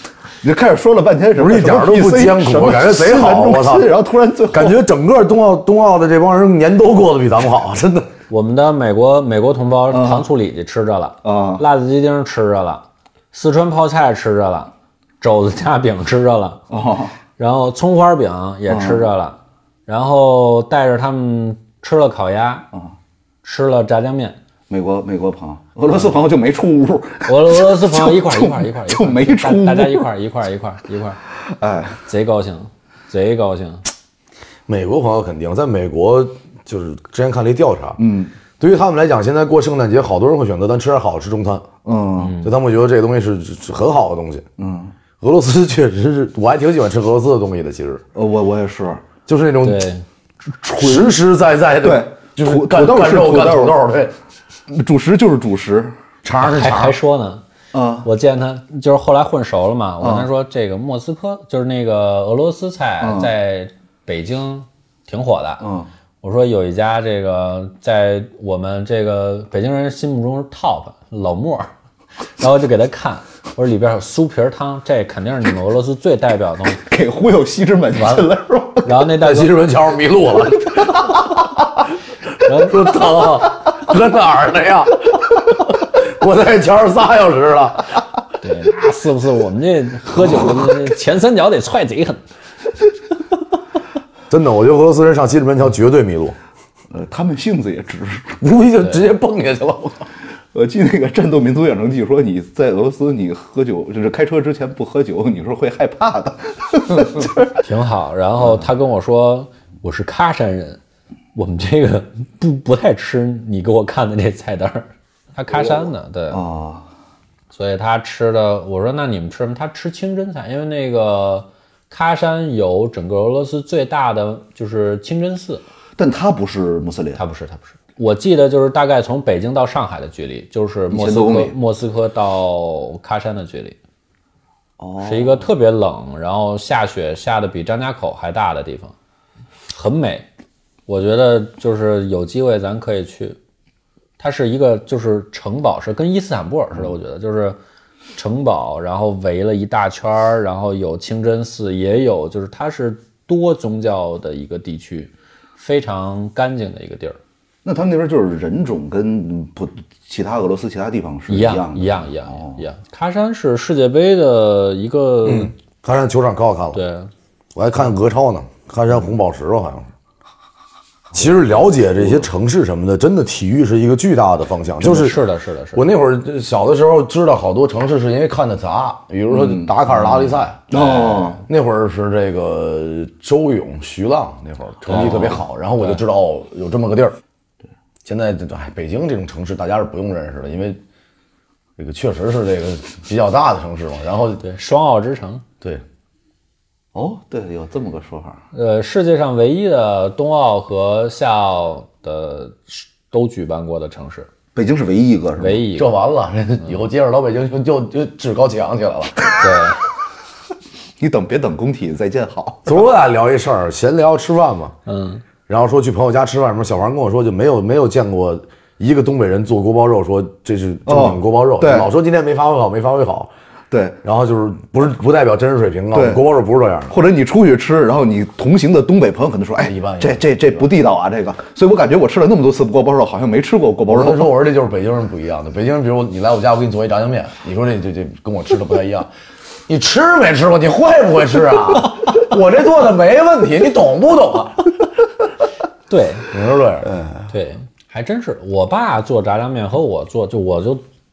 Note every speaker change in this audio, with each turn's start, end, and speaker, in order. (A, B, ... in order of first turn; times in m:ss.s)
0:00.4-0:04.8 A
0:01.4-0:03.9 B
0:04.5-0:08.1 B
0:08.3-0:16.6 C
0:09.9-0:10.3 A
0:11.2-0:11.6 A
0:16.7-0:17.2 A
0:17.4-0:22.7 C
0:18.7-0:19.1 A
0:23.4-0:24.4 C
0:24.7-0:30.1 A
0:27.3-0:31.2 C
0:31.5-0:32.0 A
0:32.1-0:33.8 C
0:34.7-0:38.0 B
0:38.0-0:38.4 A
0:38.6-0:41.7 B
0:41.8-0:42.4 A
0:42.2-0:42.5 C
0:42.4-0:44.5 B
0:44.6-0:44.9 A
0:45.2-0:48.0 B
0:48.2-0:49.0 A
0:49.3-0:49.9 B
0:49.6-0:50.0 C
0:50.6-0:51.2 A
0:50.8-0:54.2 B
0:51.8-0:53.8 A
0:54.7-0:55.9 A
0:56.2-0:57.0 B
0:56.4-0:57.4 C
0:57.7-0:58.1 A
0:58.0-1:05.6 C
1:00.0-1:00.3 A
1:03.0-1:03.3 A
1:05.6-1:05.9 A
1:06.2-1:11.7 C
1:12.4-1:16.8 C
1:16.8-1:19.0 A
1:18.0-1:18.3 C
1:18.8-1:19.5 C
1:19.2-1:21.5 B
1:22.4-1:22.7 C
1:22.4-1:28.0 B
1:28.4-1:32.2 C
1:34.3-1:36.4 B
1:36.9-1:38.4 A
1:38.4-1:40.1 B
1:40.5-1:47.6 A
1:47.6-1:50.8 C
1:51.4-1:56.4 C
1:55.5-1:56.9 A
1:57.5-2:05.6 C
2:06.0-2:07.2 A
2:07.2-2:13.8 C
2:10.9-2:11.6 A
2:14.8-2:15.5 A
2:15.0-2:18.9 C
2:19.7-2:20.3 C
2:20.9-2:23.4 C
2:24.2-2:27.6 C
2:28.2-2:37.2 C
2:37.6-2:42.6 A
2:41.3-2:45.5 C
2:45.2-2:46.8 B
2:46.7-2:47.1 C
2:47.6-2:49.9 B
2:51.1-2:55.2 B
2:54.8-2:55.9 C
2:55.8-3:00.7 B
2:59.3-3:01.4 A
3:00.7-3:01.4 C
3:01.5-3:07.2 B
3:04.9-3:06.0 C
3:04.9-3:05.4 A
3:08.0-3:10.8 B
3:11.8-3:14.4 B
3:14.4-3:15.4 C
3:16.9-3:18.4 A
3:18.5-3:24.3 C
3:24.6-3:25.6 A
3:25.4-3:25.9 C
3:25.8-3:29.3 B
3:29.4-3:29.8 C
3:31.0-3:32.8 A
3:32.7-3:34.7 B
3:34.9-3:35.2 C
3:35.5-3:43.3 B
3:40.9-3:41.9 A
3:43.7-3:44.0 A
3:44.0-3:46.9 B
3:45.9-3:46.2 A
3:46.9-3:54.3 A
3:49.6-3:50.7 B
3:53.9-3:59.1 B
3:59.7-4:04.8 B
4:05.9-4:06.3 C
4:06.3-4:06.9 B
4:07.3-4:10.8 C